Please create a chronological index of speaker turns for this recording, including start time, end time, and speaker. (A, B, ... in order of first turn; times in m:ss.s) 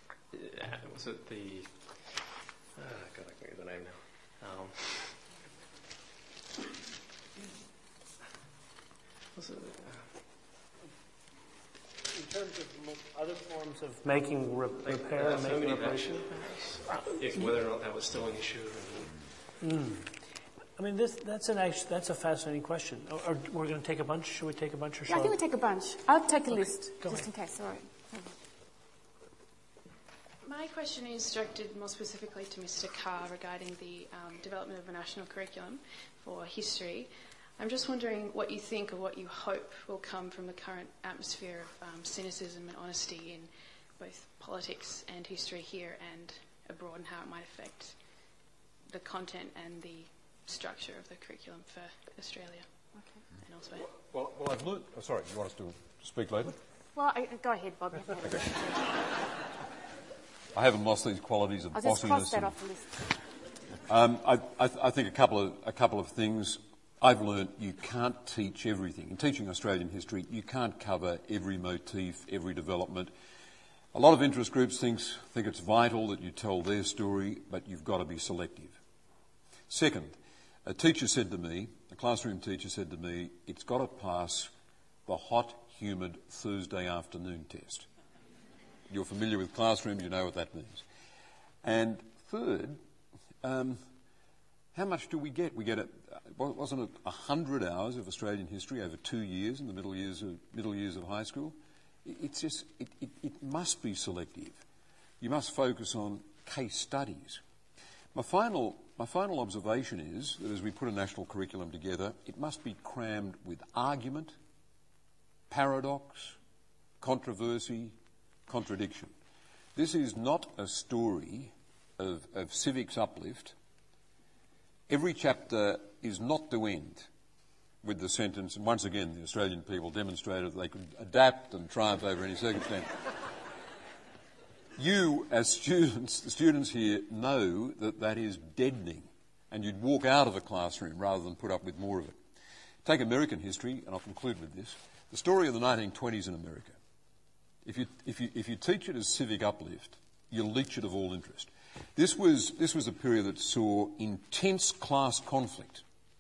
0:00.3-0:02.2 A
0:02.8-0:05.2 A
0:09.4-0:10.1 A
0:12.1-0:16.3 B
0:14.8-0:19.1 A
0:16.9-0:17.5 B
0:19.6-0:20.1 B
0:20.8-0:25.4 B
0:25.1-0:28.3 C
0:27.0-0:27.3 B
0:30.4-0:48.2 D
0:48.9-0:53.9 D
0:53.0-0:53.2 C
0:53.8-0:56.6 E
0:56.9-0:58.9 C
1:00.5-1:02.6 E
1:01.7-1:03.2 C
1:03.9-1:13.1 E
1:13.9-1:18.8 E
1:19.7-1:24.5 E
1:25.1-1:27.9 E
1:28.9-1:30.8 E
1:31.6-1:32.8 E
1:33.4-1:33.8 E
1:34.7-1:44.6 E
1:45.2-1:47.4 E
1:48.1-1:54.4 E
1:55.5-1:56.4 E
1:57.0-1:58.0 E
1:58.5-1:59.1 E
1:59.8-2:03.6 E
2:04.9-2:07.1 E
2:07.8-2:12.9 E
2:14.8-2:22.2 E
2:22.8-2:26.8 E
2:27.6-2:35.8 E